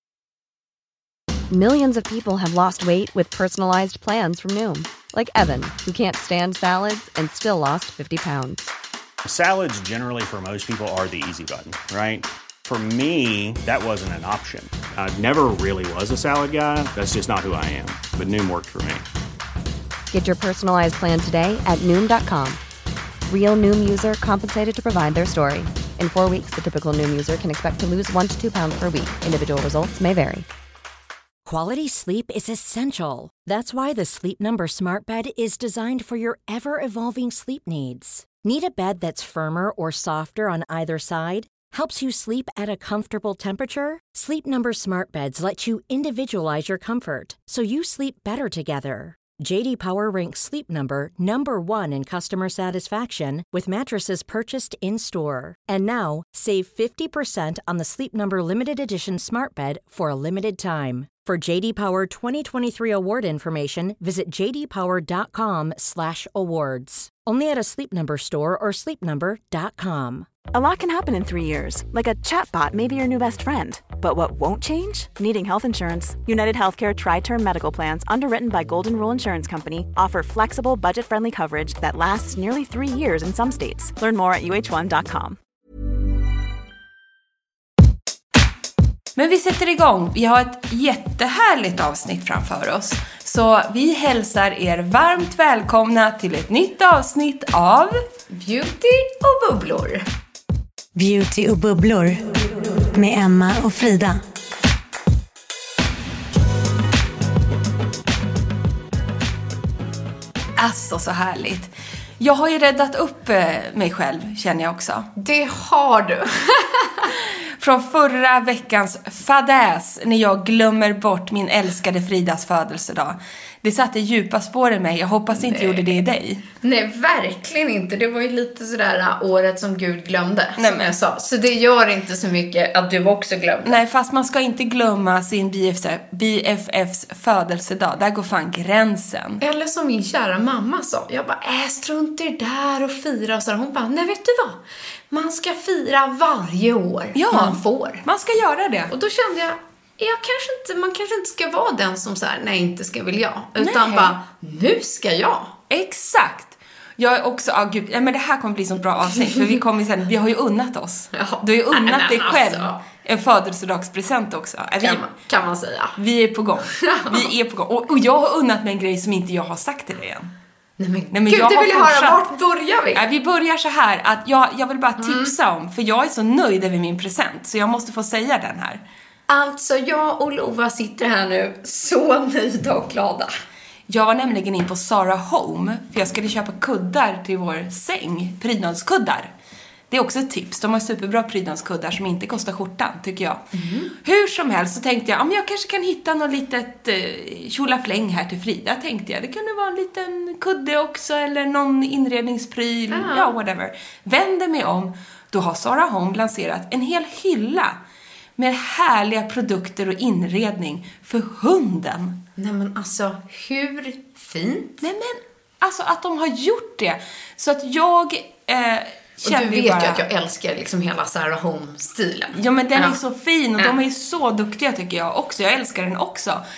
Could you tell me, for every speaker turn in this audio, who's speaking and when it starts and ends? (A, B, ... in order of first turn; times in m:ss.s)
0:01.5-0:08.7 A
0:09.2-0:19.0 B
0:20.1-0:22.6 A
0:23.3-0:30.5 A
0:31.5-1:10.3 C
1:10.5-1:25.4 D
1:29.2-1:38.0 E
1:38.3-1:40.0 F
1:41.0-1:44.2 G
1:50.6-1:55.1 E
1:55.2-1:57.1 F
1:57.6-2:06.4 E
2:05.4-2:05.9 F
2:06.6-2:13.8 F
2:10.6-2:11.0 E
2:13.6-2:19.4 E
2:19.4-2:24.6 F
2:25.1-2:28.0 F
2:27.2-2:28.9 E
2:28.9-2:35.5 F
2:33.6-2:34.2 E
2:35.7-2:45.1 E
2:41.1-2:42.8 F
2:44.8-2:46.0 F
2:46.0-2:50.3 E
2:46.8-2:47.3 F
2:50.8-2:53.0 F
2:51.1-2:52.2 E
2:53.0-2:58.8 E
2:55.0-2:55.3 F
2:59.3-3:03.3 F
3:03.9-3:09.3 E
3:09.9-3:13.4 E
3:13.5-3:13.9 F
3:14.0-3:27.8 E
3:22.9-3:23.3 F
3:28.4-3:32.2 E
3:32.4-3:34.8 F
3:34.8-3:40.0 E
3:39.2-3:43.0 F
3:42.3-3:46.4 E